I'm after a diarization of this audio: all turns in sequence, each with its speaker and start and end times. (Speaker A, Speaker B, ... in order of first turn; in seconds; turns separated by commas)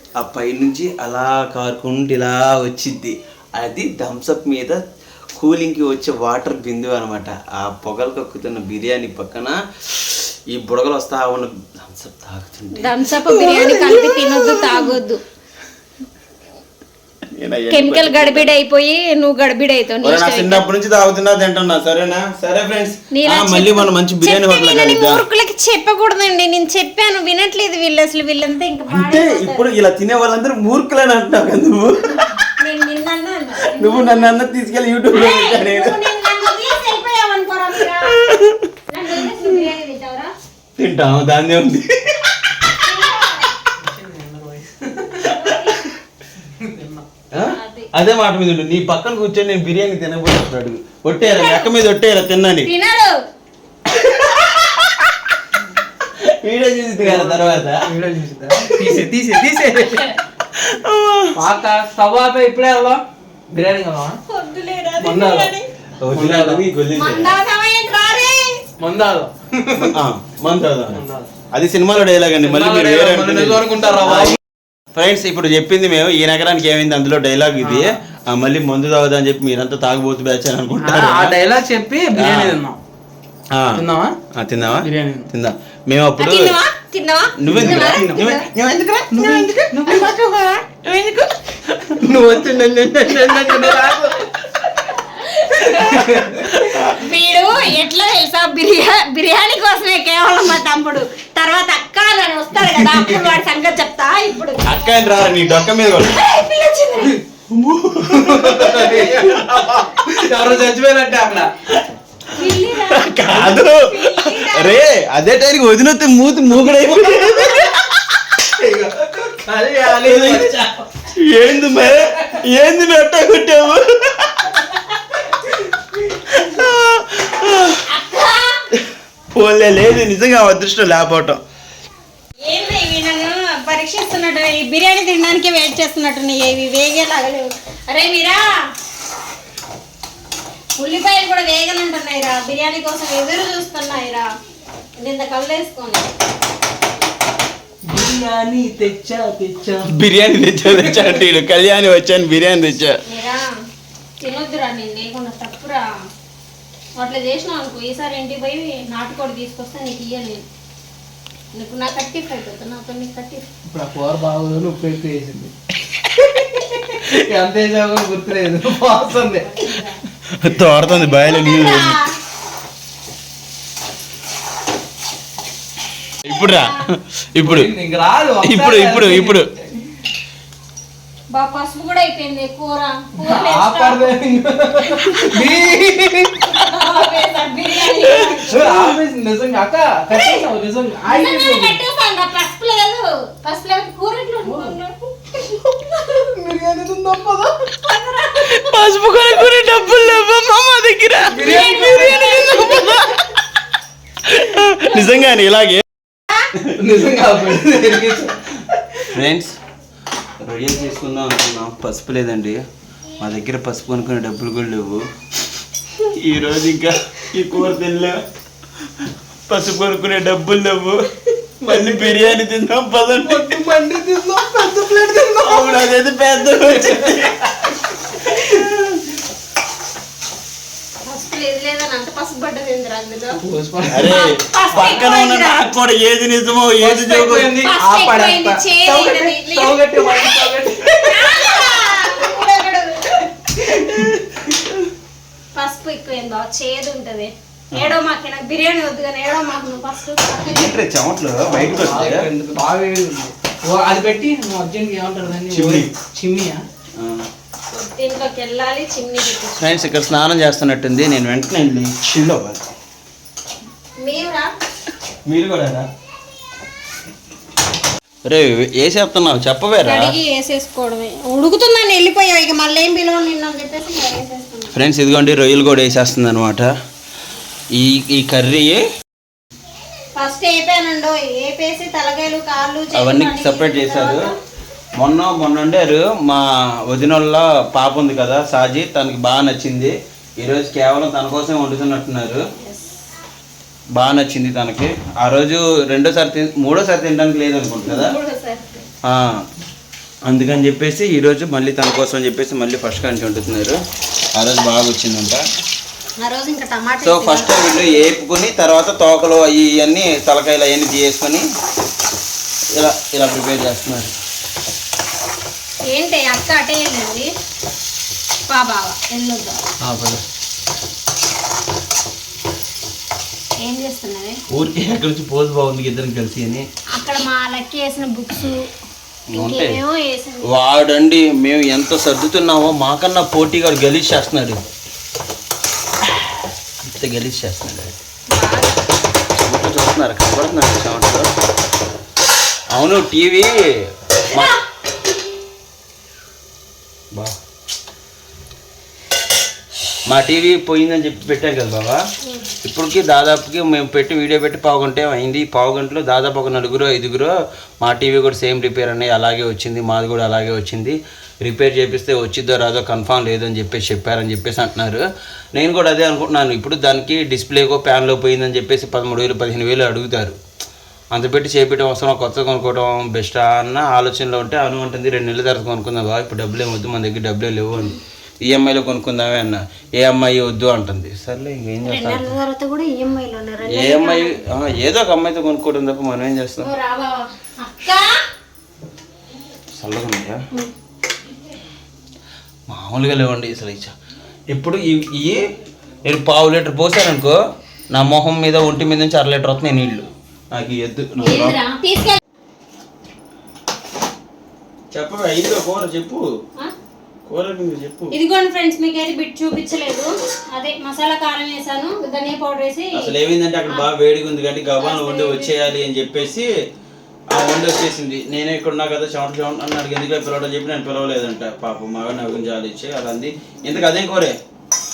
Speaker A: 0.2-4.8, Speaker A: 5.4-15.0, Speaker B: 12.8-15.2, Speaker A: 17.3-18.5, Speaker B: 17.7-20.6, Speaker A: 20.0-25.2, Speaker B: 23.1-29.7, Speaker A: 28.9-32.4, Speaker B: 32.6-34.3, Speaker A: 33.6-36.0, Speaker B: 35.1-38.3, Speaker A: 38.0-38.7, Speaker B: 38.9-40.3, Speaker A: 39.2-39.5, Speaker A: 40.8-42.4, Speaker B: 42.8-43.5, Speaker C: 43.8-45.3, Speaker B: 45.2-45.9, Speaker A: 45.5-45.7, Speaker C: 46.6-47.0, Speaker A: 47.3-52.7, Speaker B: 47.5-47.9, Speaker B: 51.3-51.7, Speaker B: 52.6-53.1, Speaker A: 53.9-55.3, Speaker A: 56.0-57.8, Speaker C: 57.0-60.0, Speaker A: 58.7-59.0, Speaker A: 60.5-61.4, Speaker C: 61.3-64.2, Speaker B: 64.2-65.7, Speaker C: 65.0-65.5, Speaker A: 66.0-67.3, Speaker C: 66.1-66.6, Speaker B: 66.9-68.6, Speaker C: 68.8-70.0, Speaker A: 69.7-74.4, Speaker C: 70.9-71.3, Speaker C: 72.4-74.4, Speaker A: 74.9-81.4, Speaker C: 77.6-78.0, Speaker C: 80.8-82.8, Speaker A: 82.1-82.6, Speaker A: 83.5-86.5, Speaker C: 83.7-84.2, Speaker C: 84.8-85.3, Speaker B: 86.2-88.4, Speaker A: 87.4-89.8, Speaker C: 87.5-88.2, Speaker C: 89.1-90.1, Speaker B: 89.9-90.7, Speaker A: 90.8-94.0, Speaker C: 92.0-94.3, Speaker B: 95.2-95.9, Speaker C: 95.7-96.8, Speaker A: 95.8-97.1, Speaker B: 96.9-104.7, Speaker C: 102.7-103.3, Speaker A: 104.6-106.2, Speaker B: 106.0-107.2, Speaker A: 107.5-110.3, Speaker C: 108.1-109.5, Speaker C: 110.1-111.5, Speaker B: 112.3-114.8, Speaker A: 112.5-118.9, Speaker C: 119.3-120.8, Speaker A: 119.8-124.5, Speaker C: 121.9-122.3, Speaker A: 126.2-127.9, Speaker B: 127.9-128.6, Speaker A: 129.3-131.4, Speaker B: 132.4-138.7, Speaker B: 140.8-144.3, Speaker B: 145.0-146.1, Speaker C: 147.8-149.9, Speaker A: 149.9-153.0, Speaker C: 150.8-151.0, Speaker B: 153.0-153.5, Speaker B: 154.2-155.9, Speaker B: 157.0-160.4, Speaker B: 161.5-163.5, Speaker C: 163.7-165.5, Speaker C: 166.4-169.5, Speaker B: 169.4-170.0, Speaker A: 170.3-172.0, Speaker B: 170.9-172.1, Speaker A: 176.2-177.7, Speaker B: 176.4-176.8, Speaker C: 177.4-179.9, Speaker A: 178.4-179.5, Speaker B: 181.3-184.1, Speaker C: 183.2-186.9, Speaker B: 186.5-188.7, Speaker A: 187.9-189.0, Speaker C: 188.5-191.8, Speaker B: 190.1-190.4, Speaker B: 191.0-196.2, Speaker C: 194.4-194.7, Speaker C: 196.0-197.8, Speaker B: 197.8-198.6, Speaker A: 198.3-203.1, Speaker C: 201.3-203.0, Speaker B: 201.4-203.0, Speaker A: 204.2-205.8, Speaker C: 206.7-209.1, Speaker A: 209.1-209.6, Speaker A: 210.4-212.6, Speaker A: 213.2-215.1, Speaker A: 216.1-218.2, Speaker A: 219.1-221.1, Speaker C: 221.6-222.4, Speaker A: 221.6-223.6, Speaker C: 223.2-225.8, Speaker A: 225.4-227.8, Speaker A: 228.4-229.0, Speaker B: 231.0-233.4, Speaker C: 233.4-235.0, Speaker A: 233.9-237.6, Speaker B: 234.0-235.6, Speaker C: 236.8-241.8, Speaker B: 237.6-243.2, Speaker C: 243.5-244.1, Speaker A: 244.1-244.7, Speaker B: 245.5-250.8, Speaker A: 250.4-252.3, Speaker C: 251.6-256.6, Speaker A: 255.5-255.9, Speaker A: 256.9-257.3, Speaker B: 257.7-259.8, Speaker A: 259.6-262.6, Speaker B: 264.0-264.5, Speaker A: 265.3-265.9, Speaker A: 268.2-270.1, Speaker B: 269.8-274.8, Speaker A: 274.7-276.7, Speaker A: 277.7-278.9, Speaker B: 280.1-284.4, Speaker A: 282.9-284.3, Speaker A: 284.9-292.4, Speaker B: 292.6-292.8, Speaker A: 293.9-298.1, Speaker B: 297.8-298.8, Speaker A: 299.0-299.4, Speaker A: 300.2-303.8, Speaker A: 304.4-305.5, Speaker B: 306.2-308.1, Speaker A: 307.0-311.4, Speaker A: 312.7-314.1, Speaker B: 315.9-317.3, Speaker B: 318.5-319.6, Speaker A: 319.8-320.2, Speaker B: 323.6-324.4, Speaker A: 324.5-326.6, Speaker B: 326.9-328.6, Speaker A: 329.3-329.8, Speaker B: 329.3-330.5, Speaker A: 330.4-334.6, Speaker A: 336.8-338.0, Speaker B: 338.3-338.7, Speaker A: 339.4-341.3, Speaker A: 342.7-344.5, Speaker A: 350.1-352.0, Speaker A: 352.6-370.4, Speaker A: 371.1-382.3, Speaker B: 381.8-384.4, Speaker A: 383.7-386.7, Speaker B: 386.6-388.2, Speaker A: 389.7-390.4, Speaker A: 392.7-393.9, Speaker A: 394.5-395.5, Speaker A: 396.0-397.4, Speaker A: 397.9-401.6, Speaker B: 401.2-402.2, Speaker A: 404.9-406.2, Speaker A: 407.3-408.1, Speaker B: 408.1-413.1, Speaker A: 412.9-416.5, Speaker B: 414.8-415.6, Speaker A: 417.3-424.4